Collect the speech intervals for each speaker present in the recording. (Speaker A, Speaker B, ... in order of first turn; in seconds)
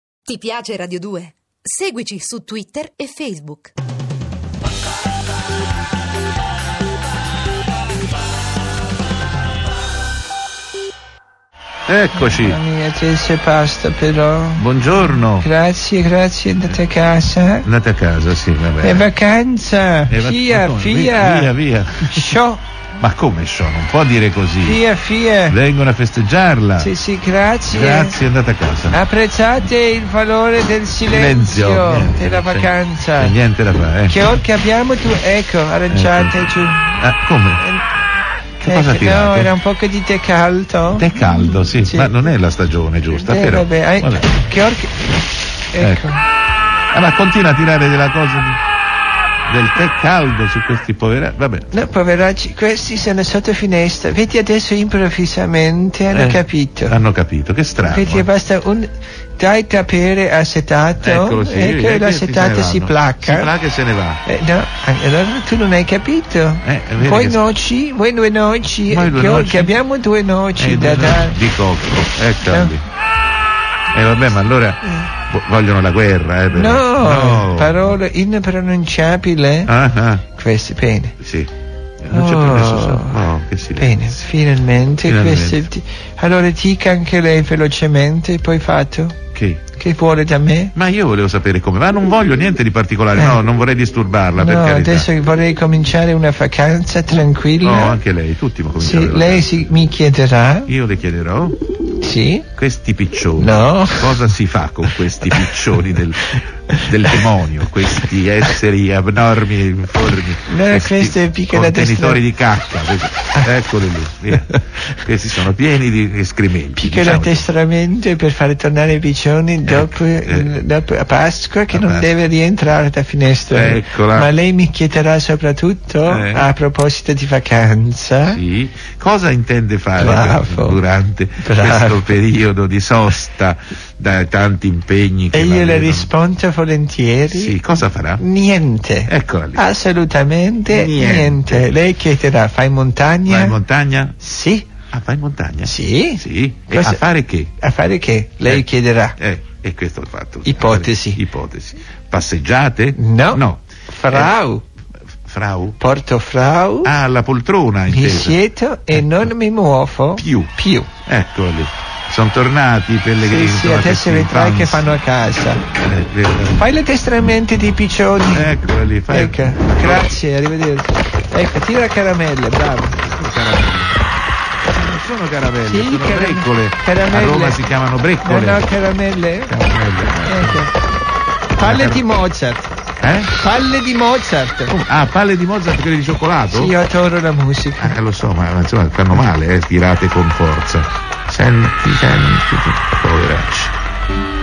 Speaker A: 0.2-3.7
Speaker B: 11.9-12.6, 14.6-15.5, 17.6-19.1, 20.1-22.4, 23.0-24.8, 25.5-26.9, 27.6-29.0, 31.1-34.3, 35.9-37.7, 38.6-39.6, 40.9-44.4, 45.8-46.0, 46.9-48.6, 49.5-51.8, 56.1-58.3, 61.0-64.2, 66.6-67.5, 68.9-69.7, 70.5-72.8, 73.9-78.0, 79.7-80.2, 81.2-81.5, 82.0-84.2, 85.0-85.7, 89.3-89.7, 90.7-95.1, 97.6-99.9, 100.7-101.6, 102.5-117.5, 119.6-120.6, 121.7-122.2, 123.5-124.3, 126.0-126.5, 128.2-136.1, 137.2-138.2, 139.1-139.7, 140.7-141.7, 143.2-144.2, 144.8-147.6, 148.4-154.4, 155.2-155.8, 156.8-159.3, 160.2-164.9, 165.7-166.7, 168.3-170.2, 173.0-173.9, 174.7-178.7, 179.5-180.7, 181.6-182.0, 183.0-183.3, 184.7-186.8, 187.8-193.7
Speaker C: 12.4-14.6, 15.4-17.7, 18.8-21.5, 22.1-22.6, 24.6-25.6, 26.8-28.2, 28.9-33.3, 34.1-36.9, 37.6-37.9, 38.6-41.1, 41.8-42.2, 43.1-44.9, 45.7-46.2, 51.7-57.0, 57.8-63.5, 64.2-71.4, 76.5-79.7, 80.3-81.1, 82.1-83.1, 83.8-89.2, 89.7-90.7, 93.1-93.4, 94.4-98.0, 98.8-100.7, 102.0-102.5, 103.4-104.1, 110.5-112.2, 116.8-128.4, 130.0-130.8, 131.4-131.9, 135.3-137.5, 138.2-143.5, 144.2-144.7, 145.6-147.0, 147.6-149.1, 150.4-151.2, 153.0-154.6, 155.8-156.9, 157.9-160.9, 163.2-165.6, 166.6-168.5, 169.1-173.0, 175.7-177.6, 178.2-179.5, 180.3-180.7, 181.6-182.7, 183.3-184.7, 186.5-187.9